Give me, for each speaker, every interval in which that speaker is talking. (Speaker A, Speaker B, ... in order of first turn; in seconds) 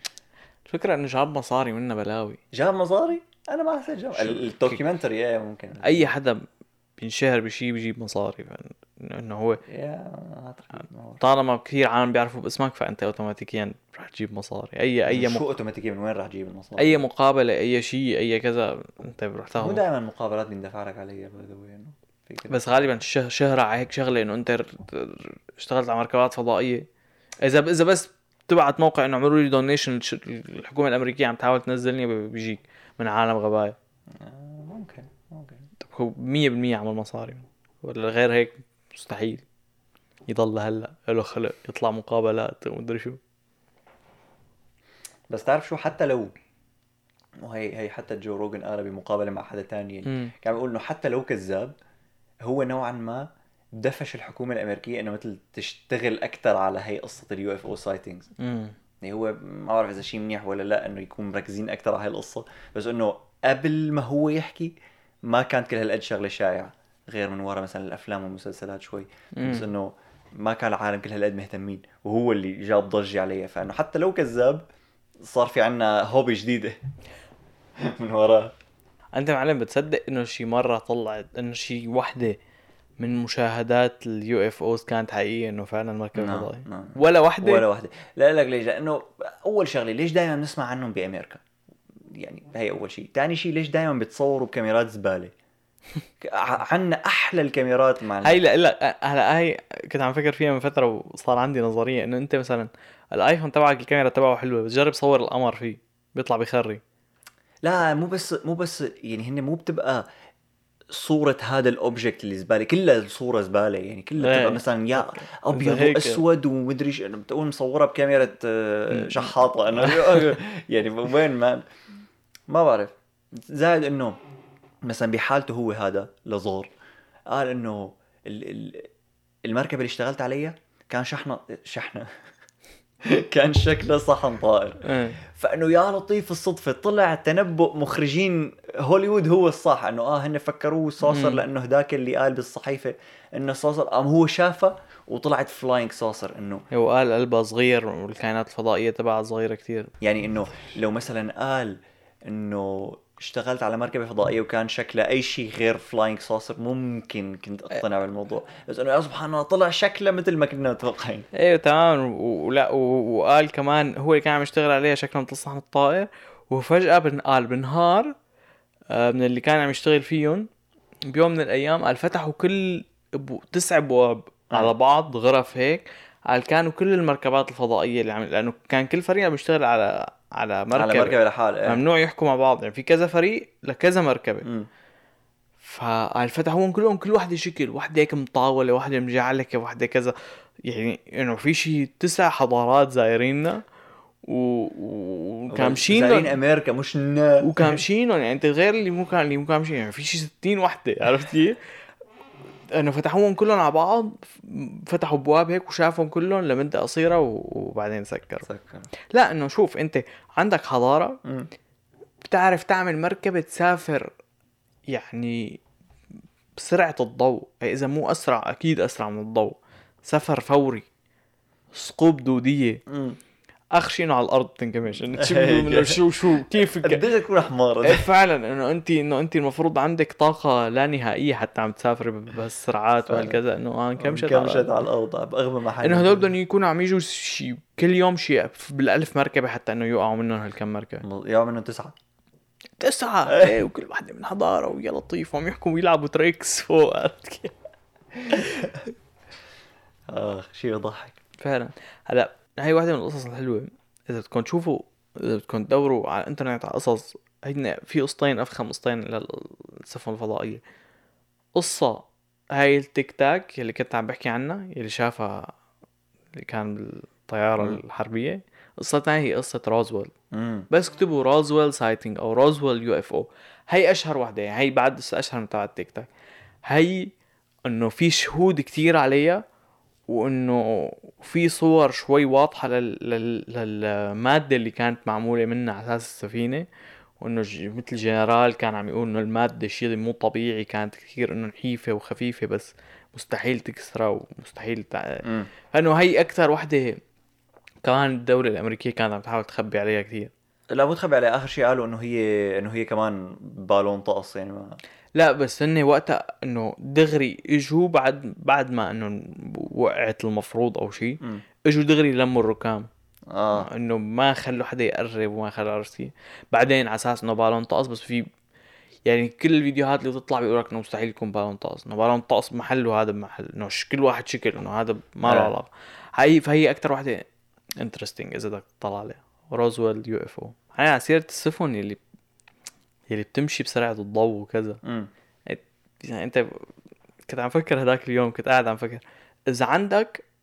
Speaker A: 0.7-2.4, 4.2-4.8, 5.8-6.5, 7.0-9.6, 11.2-15.4, 16.8-19.8, 22.5-26.9, 27.4-33.8, 35.8-39.4, 40.3-43.2, 50.1-50.3, 58.4-58.8, 69.4-69.7, 79.1-82.4, 83.0-87.7, 98.2-106.8, 114.2-116.2, 118.9-120.4, 134.8-135.2, 141.1-141.4, 146.7-149.9, 161.3-168.1, 168.9-170.5, 171.1-184.5, 185.6-193.6, 194.2-196.4, 197.4-201.6, 202.7-208.4, 209.1-211.2, 212.3-214.1, 214.9-215.6, 216.6-220.9, 221.7-222.8, 223.7-227.1, 227.8-234.7, 235.8-241.0, 242.8-247.6, 251.4-260.6, 261.6-265.5, 266.3-270.1, 270.7-276.1, 276.6-277.1, 277.6-279.4, 280.1-286.7, 287.2-297.0, 297.8-300.3, 305.1-312.9, 313.6-318.3, 319.1-327.3, 327.8-332.0, 333.1-334.8, 335.5-336.6, 337.3-340.2
Speaker B: 2.5-6.1, 9.7-11.2, 15.1-17.0, 19.6-22.6, 34.1-35.7, 45.3-46.3, 47.4-51.7, 52.4-58.3, 59.0-64.7, 65.3-74.6, 75.2-76.8, 77.8-78.5, 86.2-91.4, 92.2-95.3, 96.2-98.4, 107.6-110.1, 110.9-121.6, 122.5-124.2, 124.8-126.7, 127.3-128.9, 129.4-132.1, 133.0-146.7, 150.0-161.3, 180.7-181.8, 184.4-184.7, 195.5-197.8, 208.4-208.9, 211.2-211.5, 222.9-223.2, 225.1-228.1, 233.1-233.4, 234.0-236.3, 241.0-241.9, 243.3-243.6, 248.3-248.7, 250.1-251.2, 270.3-270.7, 295.2-295.5, 300.7-304.8, 313.3-313.7, 325.2-325.5, 334.8-335.1